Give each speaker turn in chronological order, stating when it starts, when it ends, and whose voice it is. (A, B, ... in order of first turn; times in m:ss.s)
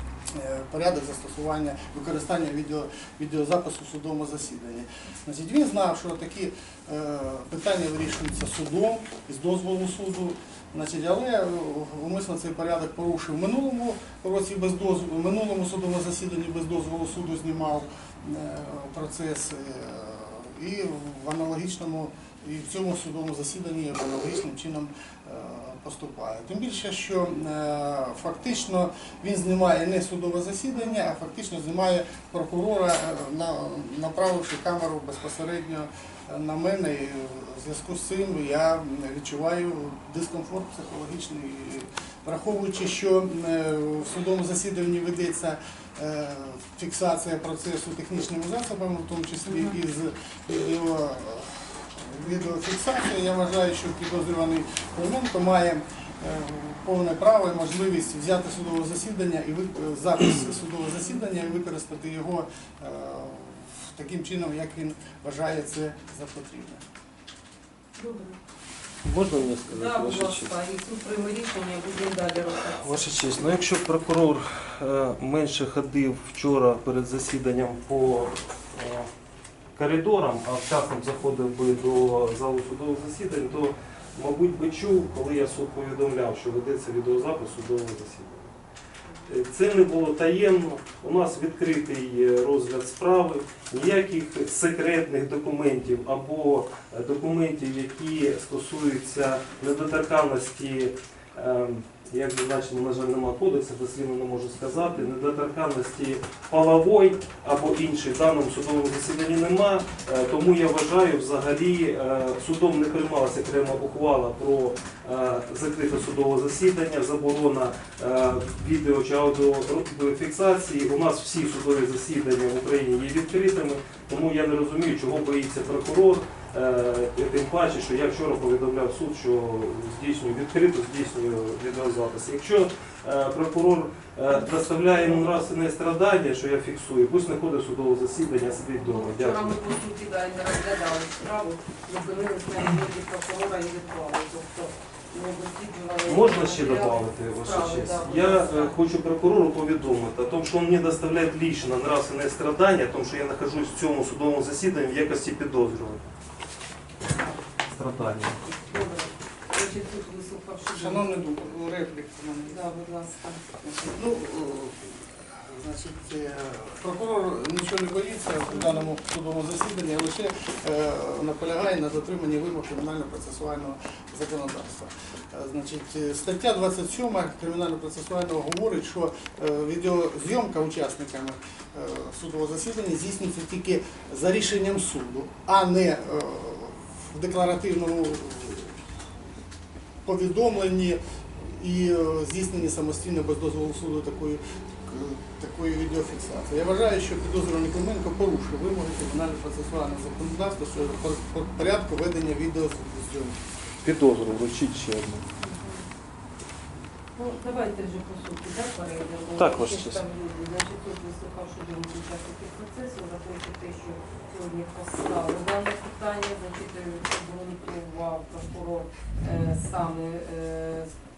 0:00.3-1:06.8 A
0:49.4-0:49.8 B
1:08.0-1:08.4 B
1:09.0-1:10.5 C
1:09.3-1:13.6 B
1:12.5-1:19.1 C
1:19.8-1:28.5 C
1:29.3-2:19.6 C
2:14.7-2:15.4 B
2:18.8-2:28.7 B
2:26.1-2:36.0 C
2:37.1-2:37.4 B
2:37.7-2:38.4 C
2:38.4-2:41.4 B
2:40.7-2:42.7 A
2:42.4-2:43.4 B
2:43.6-3:08.8 A
2:48.5-2:48.8 B
3:10.0-3:23.4 A
3:23.8-3:25.2 C
3:25.4-3:25.8 B
3:27.2-3:40.9 B
3:29.4-3:30.1 C